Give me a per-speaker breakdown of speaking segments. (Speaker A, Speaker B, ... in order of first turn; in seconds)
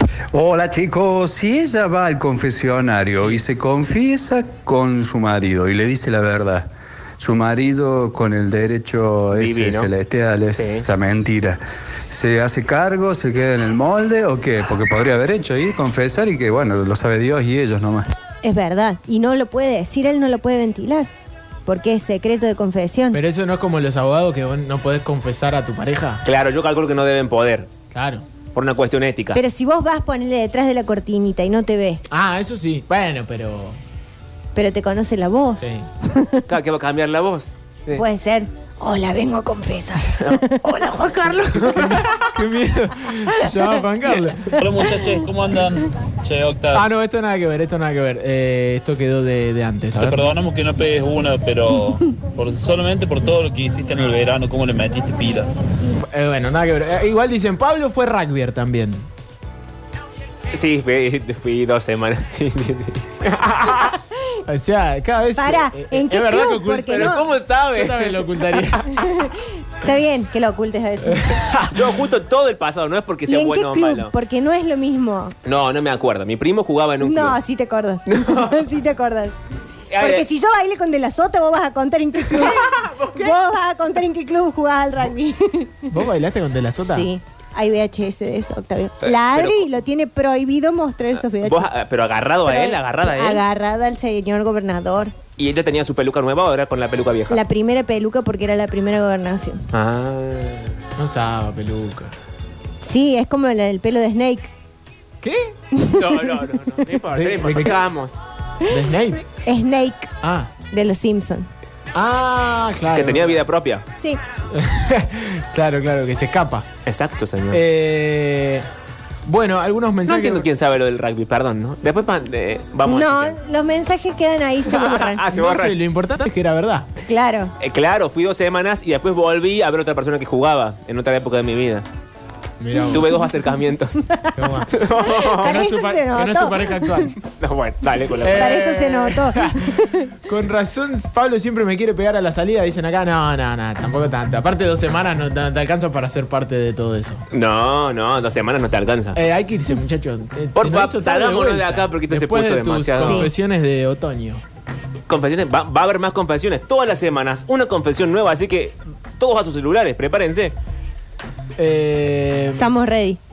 Speaker A: 0.3-18.1
Speaker B: 3.2-3.4, 23.1-26.2, 27.9-28.2, 32.1-33.8, 35.6-35.9, 41.7-44.6, 46.7-50.2, 56.0-59.1, 64.5-68.9, 71.1-71.8, 85.9-87.1, 101.0-102.1, 105.2-105.5, 107.1-107.8, 108.7-109.2, 110.2-110.5, 111.9-113.4, 114.5-116.7, 117.5-118.7, 119.2-120.5, 125.3-126.9, 132.6-133.1, 134.3-134.7, 135.4-137.1, 138.2-147.2, 149.1-154.4, 161.6-162.7
Speaker C: 9.3-9.9, 10.5-10.9, 26.2-27.7, 28.5-29.4, 36.5-38.0, 40.2-42.3, 60.5-64.0, 66.9-68.8, 71.7-74.1, 75.4-77.4, 78.1-78.7, 79.9-80.2, 82.2-83.4, 89.0-89.7, 91.2-93.4, 95.4-97.4, 99.7-100.8, 105.9-108.2, 112.9-113.8, 116.8-117.6, 120.1-123.4, 124.6-125.8, 127.6-131.8, 132.9-134.0, 134.7-135.5, 137.2-138.9, 147.3-149.2, 150.5-153.3, 155.1-160.6
Speaker D: 18.4-21.1, 21.6-23.2, 29.3-32.0, 34.5-36.4, 37.9-40.6, 65.3-67.2, 68.9-71.4, 73.3-75.3, 77.0-79.4, 80.0-85.8, 86.8-91.7, 92.5-95.1, 97.3-99.6, 102.8-104.5, 105.7-106.2, 109.3-110.1, 110.7-111.5, 122.8-125.2, 127.0-127.5, 132.9-133.2, 134.1-136.9, 138.3-140.1, 153.0-153.3, 162.6-163.2
Speaker E: 44.5-46.8, 50.0-55.5